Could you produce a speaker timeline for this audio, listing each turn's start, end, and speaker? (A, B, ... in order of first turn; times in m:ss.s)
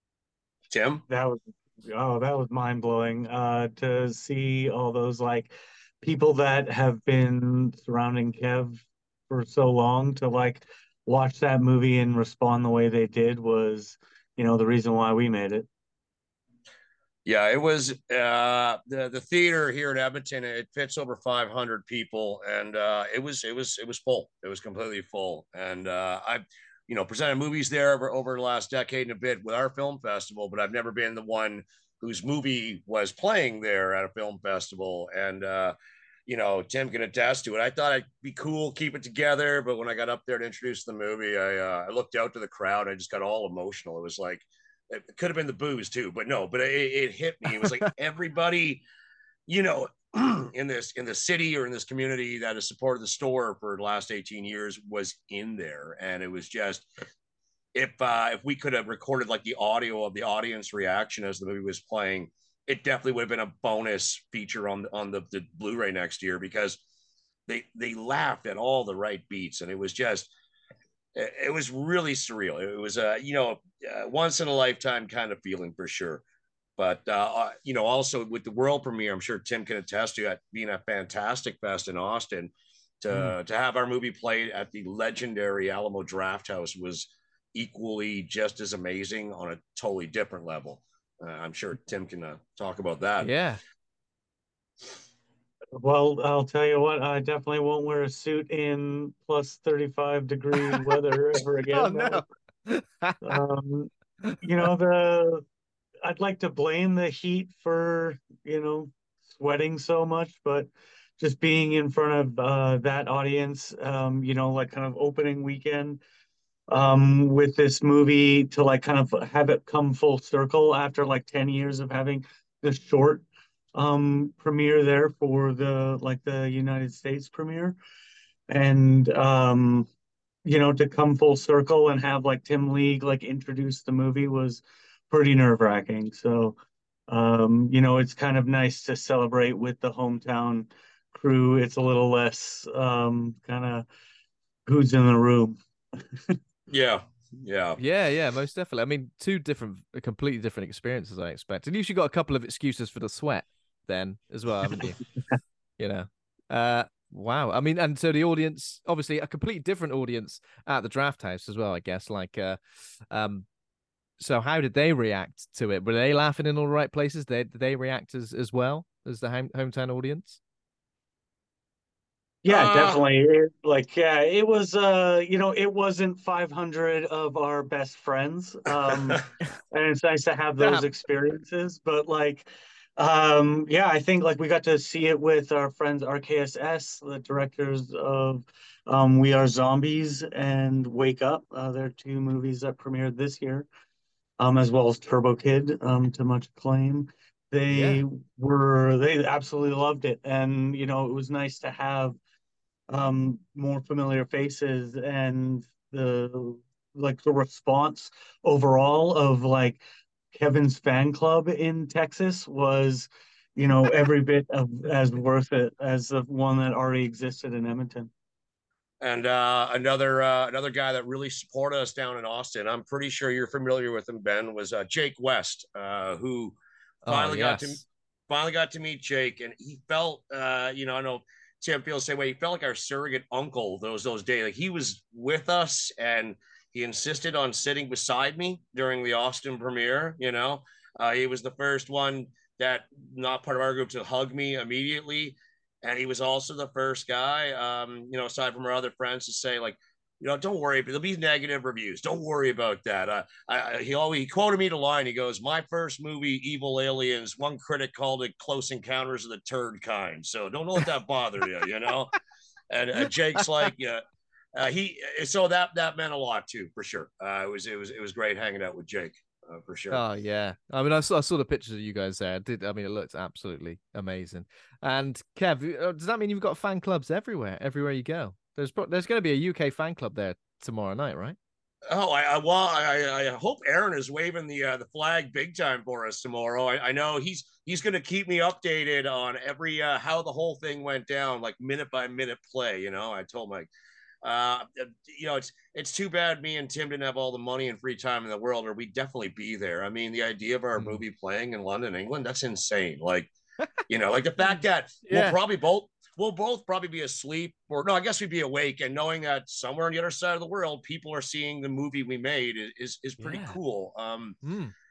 0:00.7-0:01.0 A
0:01.1-0:15.7 B
0:17.3-0:35.8 A
0:36.3-0:48.8 A
0:47.5-0:47.9 C
0:49.5-0:56.9 A
0:57.8-1:06.8 A
1:07.5-1:10.3 A
1:11.2-1:16.2 A
1:16.8-1:33.3 A
1:33.2-1:33.6 C
1:35.7-1:42.2 B
1:41.7-1:43.4 C
1:43.2-1:43.9 B
1:44.4-1:45.4 B
1:46.0-1:56.0 B
1:56.7-2:07.8 B
2:08.5-2:09.9 B
2:10.4-2:16.6 B
2:17.1-2:23.9 B
2:24.7-2:26.4 B
2:26.7-2:27.8 A
2:27.8-2:35.0 C
2:35.8-2:42.6 C
2:43.1-2:43.5 C
2:44.2-2:50.4 C
2:52.4-3:13.7 B
2:52.5-2:53.0 A
3:00.6-3:00.9 C
3:14.4-3:22.2 B
3:17.7-3:18.0 C
3:22.9-3:38.1 B
3:39.0-4:22.2 A
3:47.0-3:47.8 C
4:22.7-4:24.0 A
4:23.4-4:23.7 C
4:24.6-4:30.0 A
4:29.9-4:41.4 C
4:41.9-4:53.7 A
4:54.2-5:03.3 A
5:03.9-5:14.4 A
5:04.4-5:05.4 C
5:13.2-5:13.6 C
5:14.4-5:14.7 C